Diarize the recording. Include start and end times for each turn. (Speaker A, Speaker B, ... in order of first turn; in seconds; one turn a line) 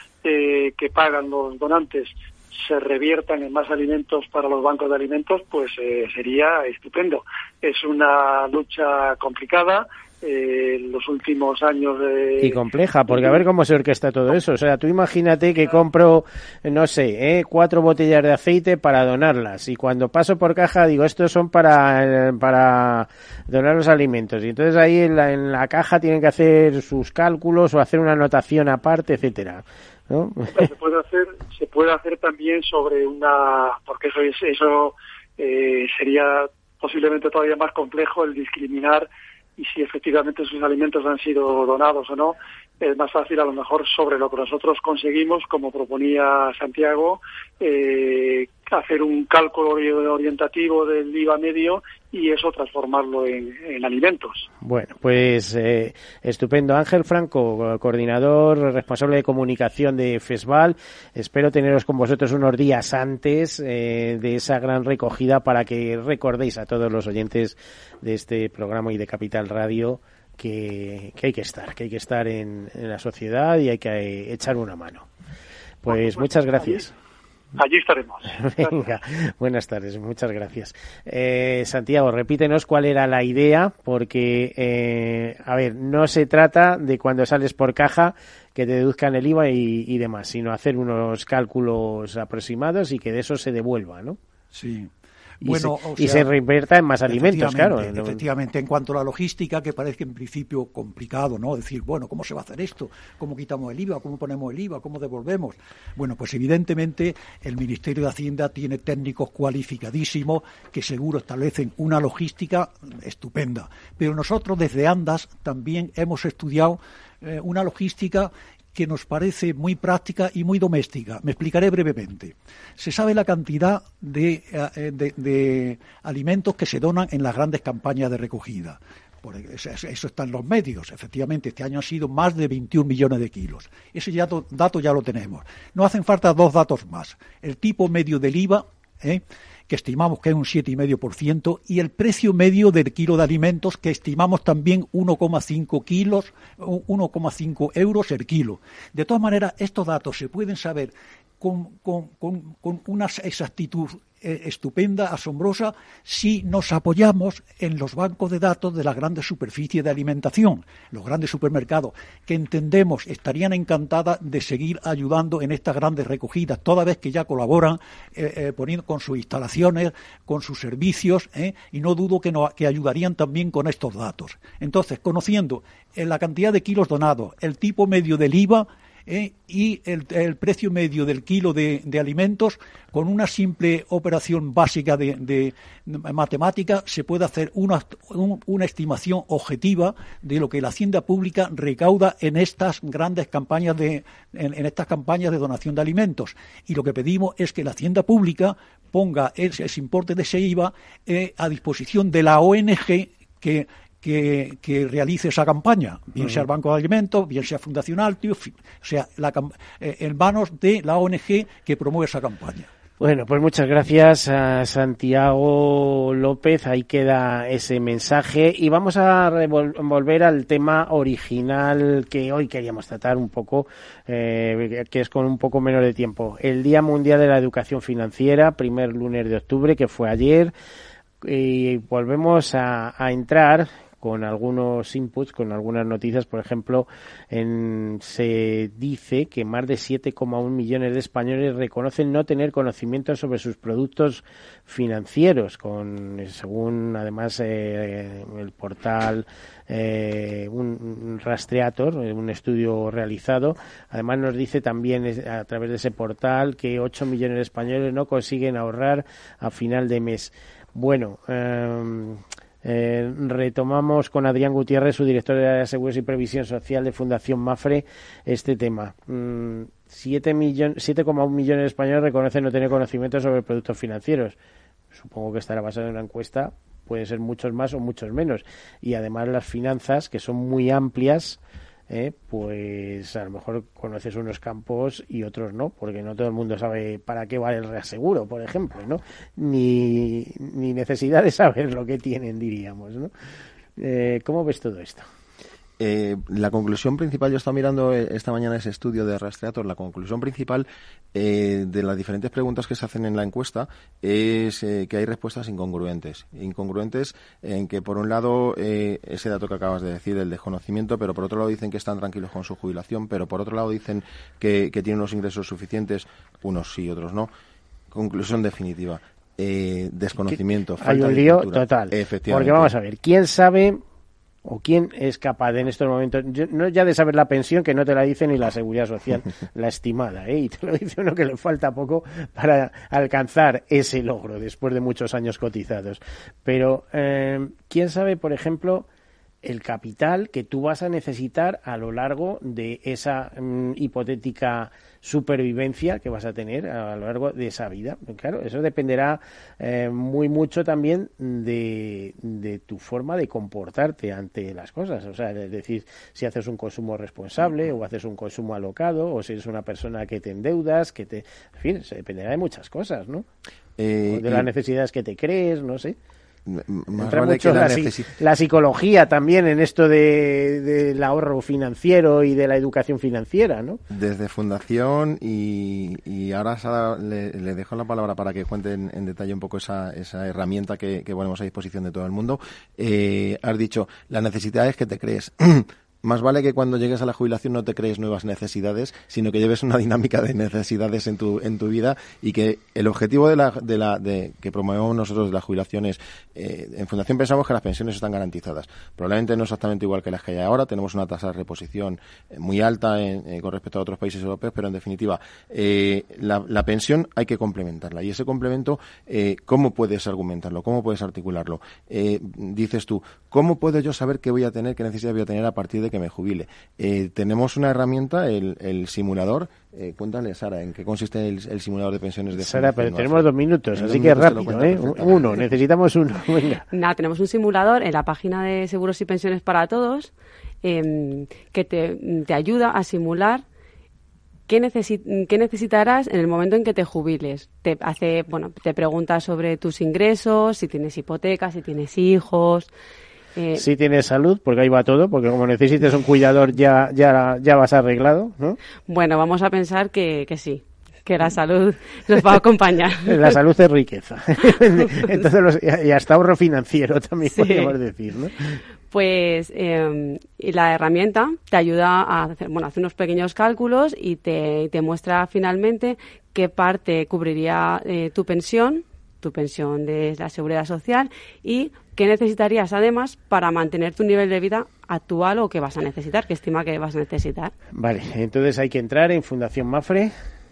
Speaker A: 0.2-12.6
Speaker B: 12.4-30.7
Speaker A: 13.1-13.4
Speaker A: 30.5-54.5
Speaker B: 54.6-75.1
Speaker B: 75.8-76.9
Speaker A: 75.9-76.9
Speaker A: 77.5-78.9
Speaker B: 78.3-94.2
Speaker C: 94.5-96.3
Speaker B: 95.4-98.2
Speaker C: 97.1-212.7
Speaker B: 206.2-206.4
Speaker B: 213.0-230.5
Speaker B: 231.2-274.4
Speaker B: 274.9-293.1
Speaker B: 293.8-295.1
Speaker D: 295.8-317.3
Speaker D: 317.9-322.7
Speaker B: 320.2-323.8
Speaker B: 324.4-338.9
Speaker B: 339.4-363.2
Speaker D: 363.8-364.5
Speaker B: 364.1-366.0
Speaker D: 366.5-368.2
Speaker B: 366.9-373.8
Speaker D: 373.9-425.4
Speaker B: 422.4-426.6
Speaker E: 426.7-430.1
Speaker E: 430.6-433.4
Speaker E: 434.5-442.7
Speaker E: 443.4-443.6
Speaker B: 443.5-448.6
Speaker E: 448.9-453.3
Speaker B: 453.0-458.6
Speaker E: 457.3-457.7
Speaker E: 458.9-477.5
Speaker B: 477.7-480.1